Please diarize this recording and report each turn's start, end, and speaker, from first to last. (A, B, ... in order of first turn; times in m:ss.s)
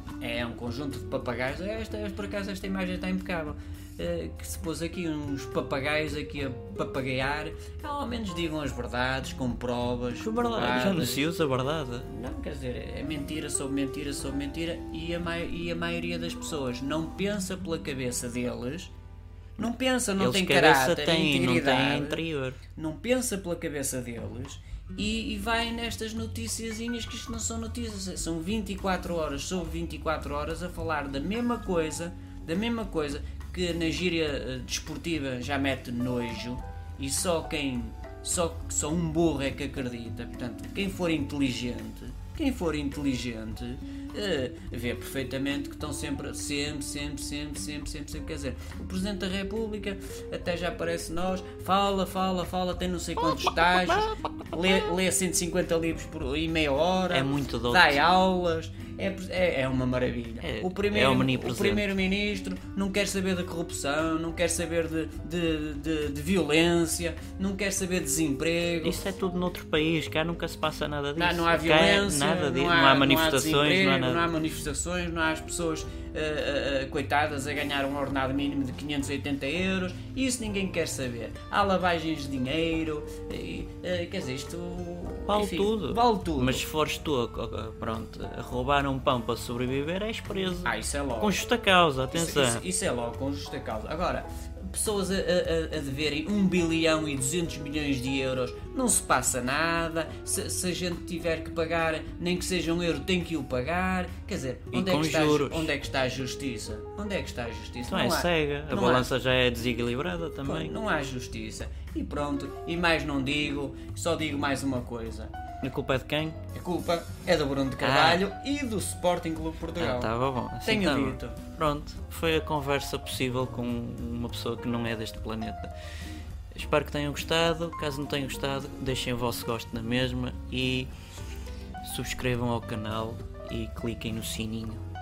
0:00.2-0:11.3 A
0:10.2-0:12.1 B
0:12.0-0:18.9 A
0:19.6-0:22.2 A
0:20.2-0:22.6 B
0:22.8-1:09.0 A
0:53.2-0:54.8 B
0:57.1-0:58.0 B
1:00.4-1:01.9 B
1:08.8-1:14.3 B
1:11.2-1:26.6 A
1:25.3-1:32.6 B
1:30.6-1:31.4 A
1:32.1-1:49.1 A
1:44.7-1:45.7 B
1:47.8-1:50.7 B
1:50.4-1:55.3 A
1:55.6-1:56.4 B
1:56.5-2:01.4 A
1:57.8-1:58.2 B
1:59.8-2:05.7 B
2:06.5-2:10.9 B
2:11.8-2:14.8 B